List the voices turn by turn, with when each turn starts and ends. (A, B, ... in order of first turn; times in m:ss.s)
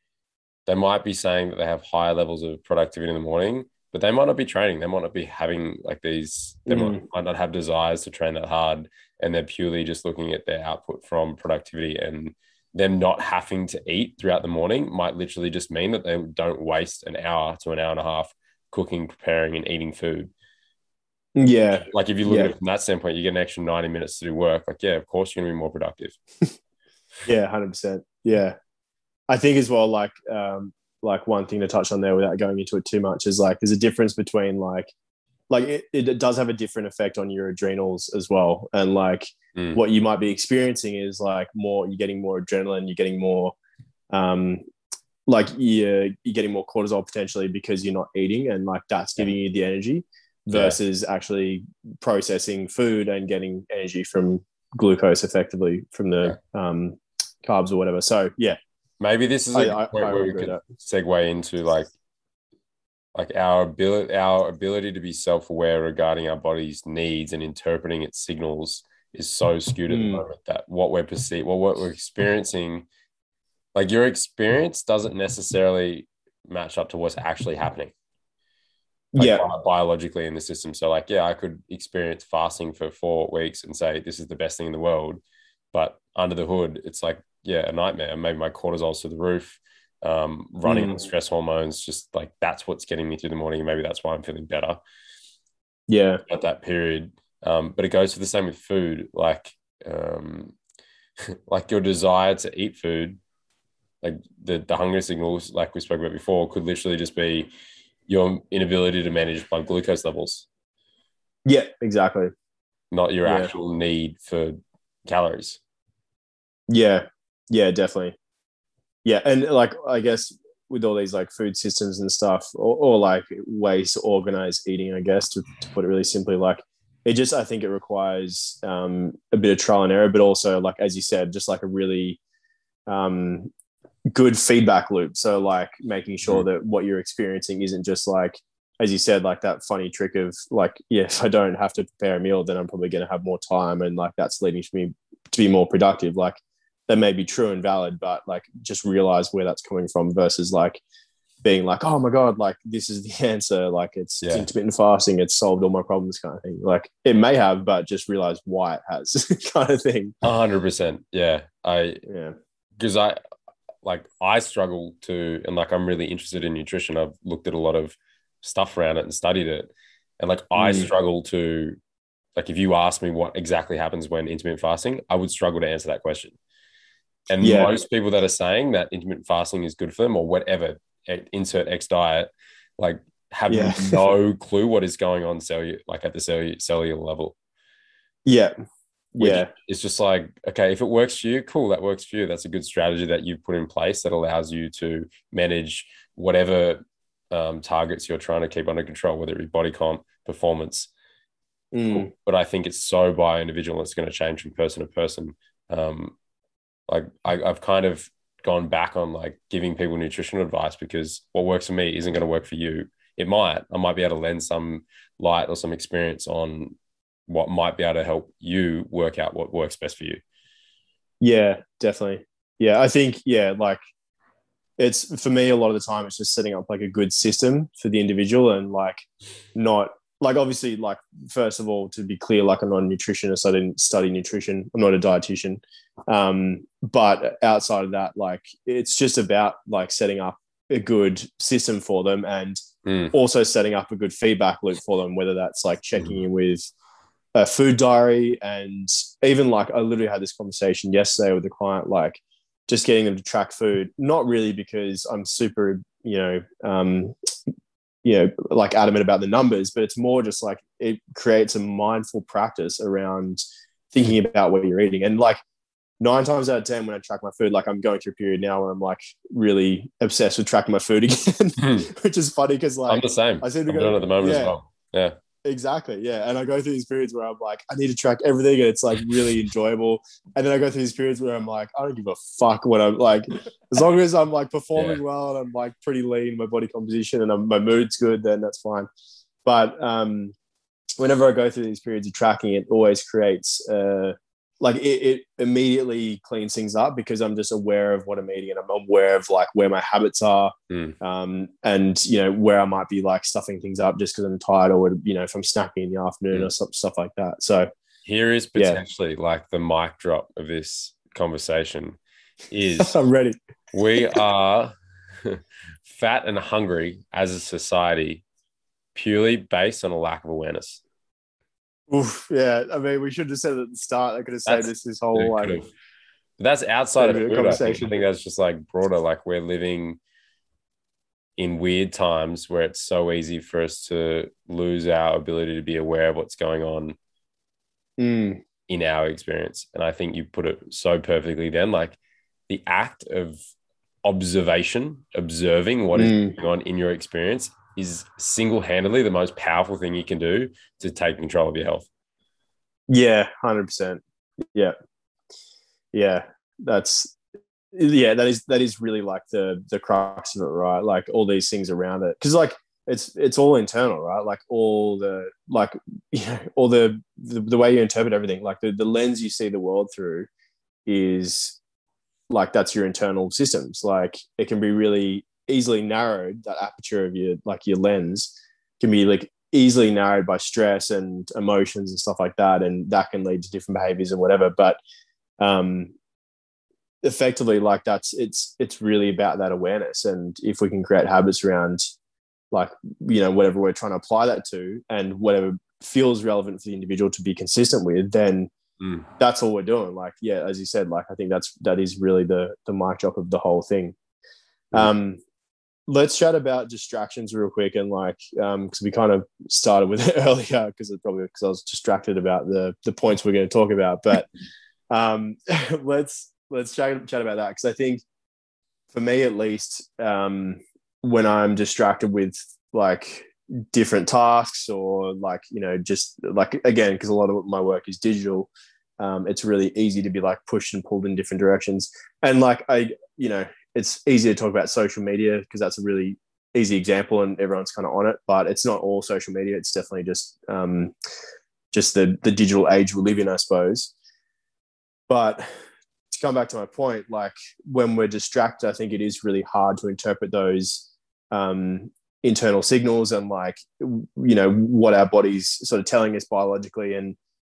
0:00.7-0:20.3 A
0:06.7-0:07.0 B
0:21.4-0:22.5 B
0:21.8-0:26.1 A
0:27.2-0:28.6 B
0:29.3-0:34.9 B
0:35.5-0:43.6 B
0:39.6-0:39.8 A
0:44.1-0:44.6 B
0:45.3-0:58.6 B
0:50.5-0:50.8 A
0:59.0-1:01.9 A
0:59.5-1:00.6 B
1:03.1-1:12.9 A
1:09.9-1:10.2 B
1:13.7-1:17.9 A
1:19.1-1:19.4 B
1:19.2-1:25.2 A
1:25.7-1:34.8 A
1:30.6-1:31.0 B
1:35.9-1:36.2 B
1:36.3-1:40.6 A
1:41.3-1:43.2 A
1:44.0-1:47.5 A
1:48.1-1:50.4 A
1:51.4-1:52.3 B
1:52.9-1:55.6 A
1:53.2-1:53.5 B
1:56.7-1:58.2 B
1:59.0-2:12.2 B
2:12.9-2:13.5 B
2:14.1-2:26.4 B
2:26.9-2:30.8 B
2:31.4-2:40.2 B
2:34.2-2:34.5 A
2:40.2-2:42.0 A
2:42.1-2:42.4 B
2:42.8-2:43.2 A
2:43.8-2:51.8 A
2:50.6-2:50.9 B
2:52.4-2:56.4 A
2:57.3-3:07.4 A
2:57.4-2:57.7 B
3:03.5-3:04.1 B
3:08.2-3:08.5 B
3:09.1-3:09.5 B
3:09.2-3:20.9 A
3:21.7-3:22.1 B
3:21.9-3:26.1 A
3:26.9-3:36.7 A
3:37.3-3:40.2 A
3:41.2-3:43.8 B
3:44.8-4:06.7 B
4:02.8-4:03.1 A
4:07.4-4:17.1 B
4:18.0-4:25.4 B
4:26.0-4:34.6 B
4:31.6-4:31.9 A
4:32.9-4:35.2 A
4:35.4-4:48.9 B
4:49.4-4:50.3 B
4:51.0-5:07.7 B
5:00.7-5:01.0 A
5:08.0-5:12.0 A
5:08.6-5:08.8 B
5:12.5-5:12.9 A
5:12.8-5:13.4 B
5:13.7-5:18.2 A
5:18.9-5:20.8 A
5:21.9-5:25.6 B
5:24.4-5:25.7 A
5:26.4-5:30.0 A
5:27.0-5:27.9 B
5:31.4-5:37.0 A
5:38.0-5:38.4 B
5:38.7-5:42.0 A
5:42.5-5:43.4 A
5:44.0-5:51.9 A
5:45.9-5:46.4 B
5:52.9-5:54.0 B
5:55.9-5:57.2 B
5:57.7-6:10.3 B
6:10.9-6:11.6 B
6:12.3-6:24.8 B
6:25.4-6:25.9 B
6:27.0-6:31.9 B
6:32.5-6:38.5 B
6:38.8-6:39.1 A
6:39.2-6:43.9 B
6:44.7-6:45.2 B
6:45.9-6:54.3 B
6:54.9-6:58.0 B
6:58.9-7:20.9 B
7:21.7-7:23.9 B
7:25.1-7:25.5 B
7:26.1-7:37.2 B